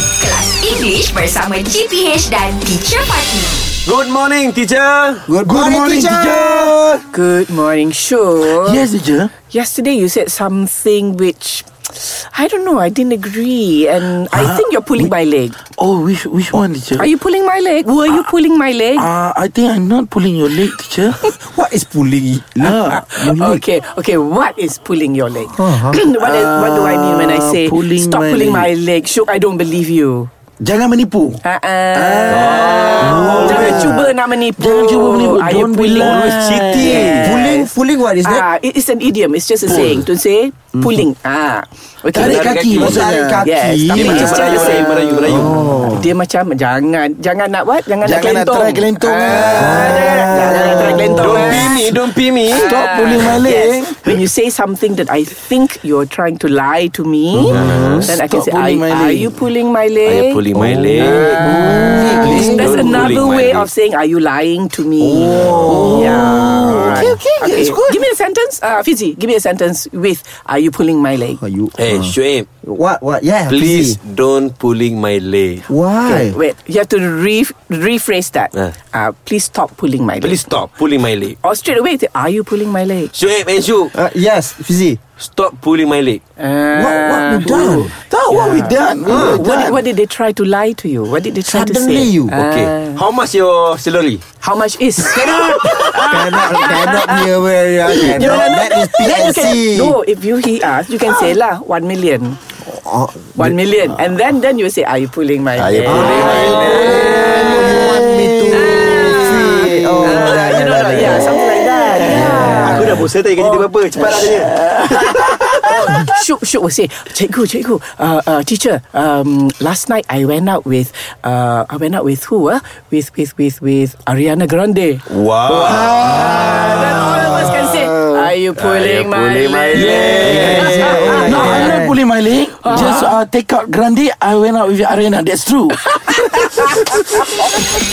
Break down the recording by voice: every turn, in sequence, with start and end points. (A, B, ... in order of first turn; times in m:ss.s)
0:00.2-0:03.6 A
0:03.8-0:05.3 B
0:05.2-0:07.0 C
0:05.4-0:06.7 D
0:07.1-0:08.8 E
0:08.5-0:09.3 D
0:09.5-0:15.6 E
0:14.3-0:15.1 D
0:15.7-0:17.1 D
0:17.0-0:19.1 E
0:19.0-0:21.2 D
0:21.3-0:23.6 C
0:22.6-0:23.4 D
0:22.9-0:30.3 E
0:25.5-0:26.0 C
0:26.1-0:28.7 D
0:30.6-0:31.4 D
0:31.4-0:37.7 E
0:31.9-0:37.0 D
0:32.3-0:33.9 B
0:33.0-0:33.8 C
0:35.9-0:37.4 B
0:37.1-0:38.4 C
0:38.2-0:52.0 E
0:39.6-0:40.0 D
0:42.1-0:45.1 D
0:42.2-0:43.1 B
0:42.8-0:46.1 C
0:44.0-0:45.8 B
0:48.0-0:50.2 D
0:49.3-0:51.6 C
0:49.8-0:52.7 B
0:52.5-1:00.4 E
0:52.6-0:54.2 D
0:57.5-0:58.1 B
0:57.5-0:58.1 C
0:58.1-0:59.3 D
1:00.0-1:01.5 B
1:00.5-1:03.1 D
1:01.4-1:11.4 E
1:01.4-1:02.6 C
1:02.1-1:03.7 B
1:05.0-1:06.8 C
1:05.6-1:08.0 D
1:11.4-1:14.0 C
1:11.8-1:12.5 B
1:13.5-1:15.7 B
1:15.7-1:16.4 C
1:16.0-1:20.5 E
1:20.2-1:21.4 B
1:21.4-1:23.1 E
1:23.1-1:23.9 B
1:23.9-1:25.0 C
1:25.2-1:26.2 B
1:26.4-1:33.0 E
1:26.7-1:27.9 C
1:27.4-1:29.8 D
1:29.0-1:29.4 C
1:31.4-1:32.3 C
1:32.3-1:34.2 B
1:34.4-1:37.3 E
1:35.2-1:40.0 C
1:37.9-1:42.4 E
1:42.6-1:43.5 C
1:43.4-1:47.8 E
1:45.6-1:47.4 B
1:45.8-1:51.4 C
1:47.3-1:49.2 D
1:48.5-1:54.2 E
1:50.0-1:50.5 D
1:50.3-1:51.2 B
1:51.0-1:52.7 D
1:51.9-1:53.0 C
1:52.6-1:55.9 B
1:54.6-1:56.0 D
1:55.1-2:11.9 E
2:05.1-2:06.4 B
2:05.8-2:07.3 D
2:05.9-2:06.6 C
2:07.8-2:08.3 C
2:08.5-2:11.5 B
2:09.7-2:17.3 D
2:10.2-2:12.0 C
2:12.6-2:13.1 E
2:15.9-2:17.2 E